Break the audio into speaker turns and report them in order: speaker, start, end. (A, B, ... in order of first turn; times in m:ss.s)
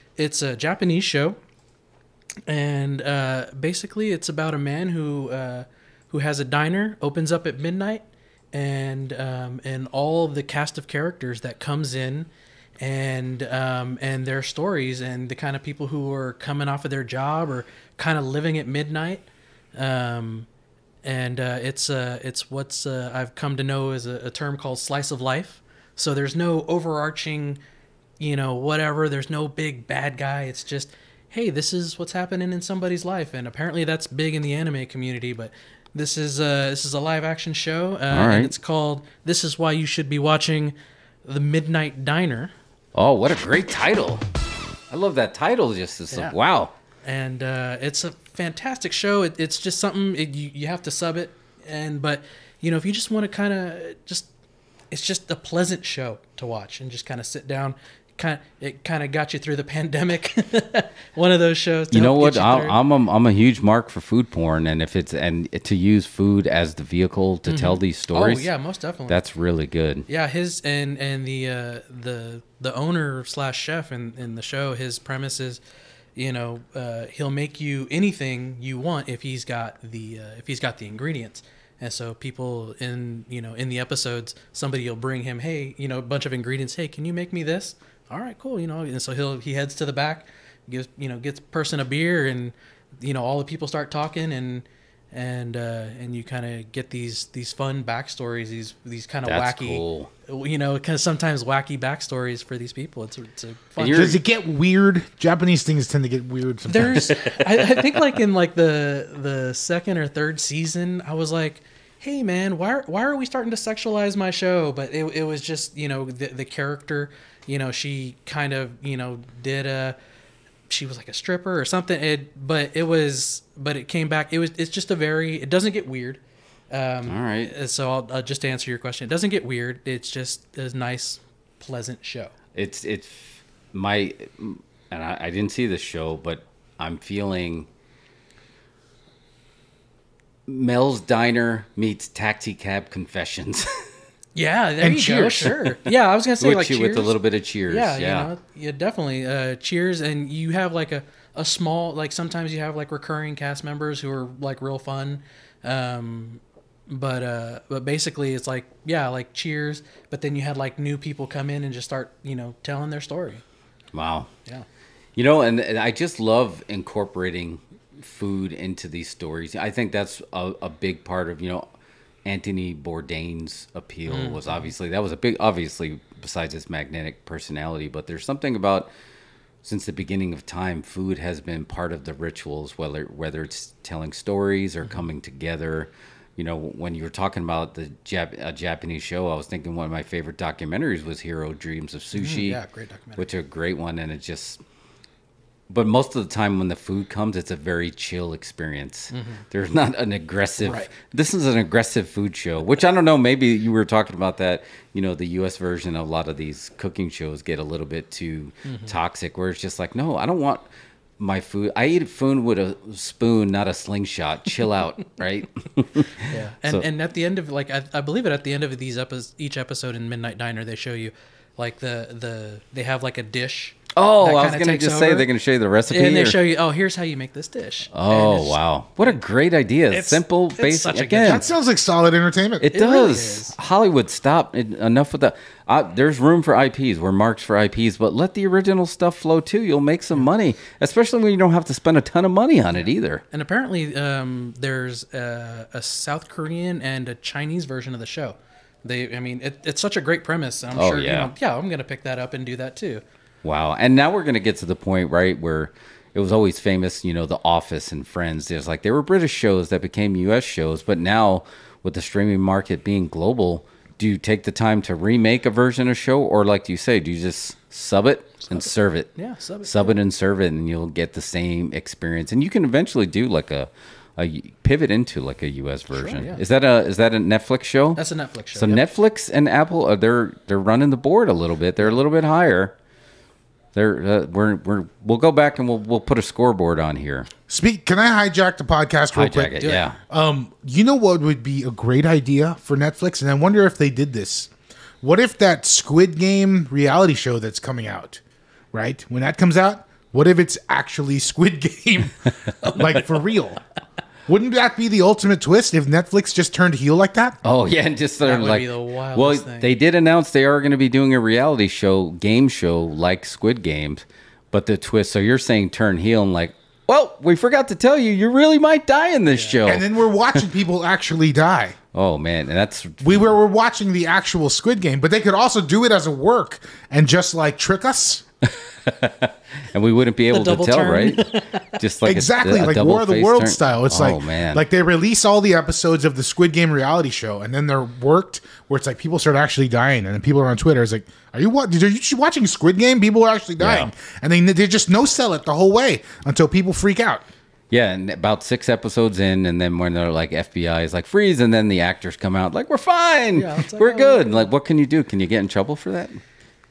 0:00.2-0:01.4 A
0:02.5-0:12.3 A
0:12.8-0:20.5 A
0:21.0-0:27.6 A
0:28.2-0:42.5 A
0:38.1-0:38.5 B
0:43.0-0:44.2 B
0:44.9-0:46.7 B
0:47.0-0:54.3 A
0:54.9-1:02.8 A
1:01.9-1:08.5 B
1:07.4-1:09.2 A
1:09.1-1:10.1 B
1:10.1-1:15.6 A
1:16.2-1:44.2 A
1:39.2-1:40.1 B
1:43.8-1:44.2 B
1:43.9-1:47.2 C
1:46.7-2:00.0 A
2:00.7-2:12.3 A
2:07.1-2:07.5 B
2:12.6-2:17.7 B
2:20.5-2:23.7 B
2:24.4-2:27.2 A
2:24.8-2:25.6 C
2:26.4-2:28.3 B
2:27.7-2:43.4 A
2:43.9-2:44.3 B
2:45.2-2:51.7 B
2:52.2-2:58.9 B
2:54.1-2:54.7 A
2:59.6-3:12.6 B
3:12.1-3:13.3 A
3:13.2-3:14.6 B
3:15.7-3:30.7 B
3:19.1-3:19.4 A
3:20.6-3:20.9 A
3:28.6-3:29.0 A
3:31.2-3:36.9 B
3:36.2-3:45.3 A
3:44.0-3:46.4 B
3:45.9-3:49.2 A
3:47.9-3:51.5 B
3:49.9-3:51.5 A
3:51.2-3:52.7 C
3:52.6-4:03.2 B
3:52.7-3:53.6 A
4:02.8-4:13.0 A
4:10.8-4:11.3 B
4:13.4-4:38.0 B
4:28.5-4:30.0 A
4:35.9-4:36.4 A
4:38.0-4:38.9 A
4:38.5-4:42.7 B
4:43.7-4:47.3 B
4:47.5-4:54.5 C
4:49.1-4:50.0 B
4:49.6-4:49.8 A
4:55.0-4:58.2 C
4:58.7-5:03.6 C
5:04.3-5:07.4 C
5:07.4-5:20.4 B
5:08.2-5:09.8 A
5:19.3-5:19.7 A
5:19.6-5:21.8 C
5:21.9-5:23.4 B
5:23.0-5:28.2 C
5:28.9-5:34.6 B
5:30.3-5:31.8 A
5:32.0-5:47.2 C
5:43.6-5:43.9 B
5:47.7-5:56.2 B
5:53.3-5:54.5 A